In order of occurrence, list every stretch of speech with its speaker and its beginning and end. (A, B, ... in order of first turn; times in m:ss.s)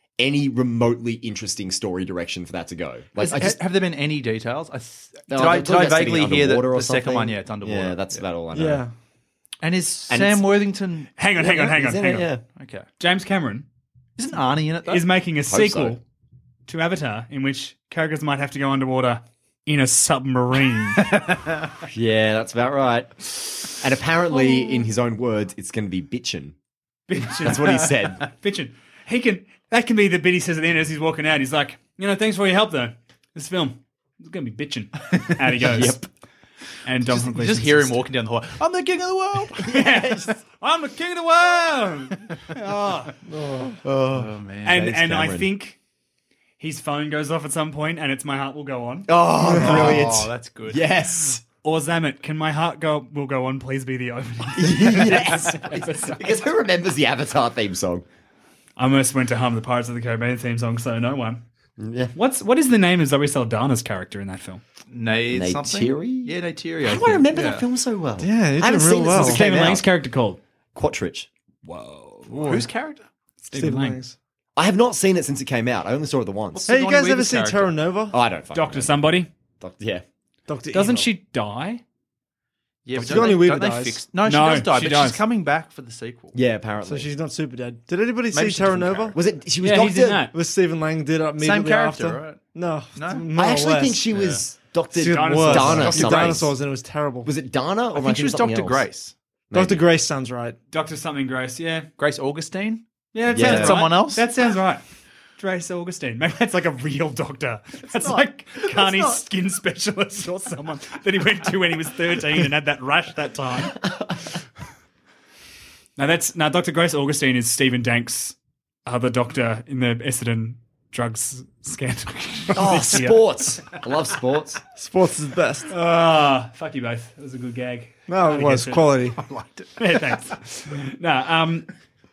0:00.2-0:03.6 A
0:03.2-0:08.2 B
0:05.3-0:08.8 A
0:08.5-0:08.9 C
0:09.6-0:11.1 B
0:10.1-0:10.7 A
0:11.2-0:12.3 D
0:11.4-0:12.4 A
0:12.6-0:12.9 B
0:13.0-0:13.7 D
0:14.2-0:15.1 B
0:14.9-0:16.0 D
0:15.5-0:16.0 A
0:16.7-0:21.0 D
0:21.0-0:21.7 B
0:21.9-0:26.6 A
0:27.1-0:36.0 D
0:27.4-0:28.3 A
0:35.6-0:36.1 A
0:36.8-0:38.0 D
0:37.1-0:39.7 B
0:39.6-0:43.1 D
0:39.7-0:40.3 A
0:43.3-0:43.8 C
0:43.8-0:45.5 A
0:44.1-0:45.0 B
0:44.6-0:45.8 D
0:46.6-0:49.9 D
0:49.1-0:51.4 A
0:49.5-0:51.0 B
0:51.6-0:56.5 D
0:54.6-0:58.0 A
0:58.8-1:01.4 D
1:01.8-1:02.1 A
1:02.1-1:04.6 D
1:04.9-1:07.7 B
1:05.3-1:09.9 A
1:08.2-1:09.4 C
1:09.2-1:10.4 D
1:10.8-1:11.3 A
1:11.6-1:12.5 D
1:12.3-1:12.7 C
1:12.4-1:13.0 B
1:13.4-1:14.0 D
1:13.5-1:14.1 C
1:14.6-1:16.7 A
1:16.5-1:17.8 B
1:16.7-1:18.1 C
1:18.1-1:20.0 A
1:18.5-1:19.3 D
1:20.5-1:21.1 C
1:20.7-1:21.8 D
1:22.8-1:26.4 B
1:23.0-1:24.0 C
1:24.2-1:25.2 D
1:26.4-1:27.1 A
1:26.8-1:29.2 C
1:28.3-1:29.2 B
1:29.1-1:30.3 A
1:29.6-1:30.3 D
1:30.3-1:34.0 C
1:31.4-1:32.4 B
1:33.0-1:33.2 B
1:33.3-1:36.6 A
1:34.1-1:34.4 B
1:35.0-1:37.3 C
1:35.0-1:36.2 D
1:35.6-1:36.4 B
1:37.2-1:38.9 A
1:37.9-1:39.1 B
1:39.5-1:39.9 A
1:39.5-1:40.6 C
1:40.7-1:41.9 D
1:42.0-1:44.3 B
1:43.1-1:44.8 D
1:43.3-1:44.0 A
1:45.4-1:53.8 D
1:47.8-1:49.2 B
1:56.0-1:58.4 D
1:58.9-2:03.5 D
2:02.5-2:04.6 A
2:04.8-2:05.7 C
2:05.7-2:09.0 D
2:08.1-2:09.2 C
2:09.2-2:10.0 B
2:09.8-2:11.7 D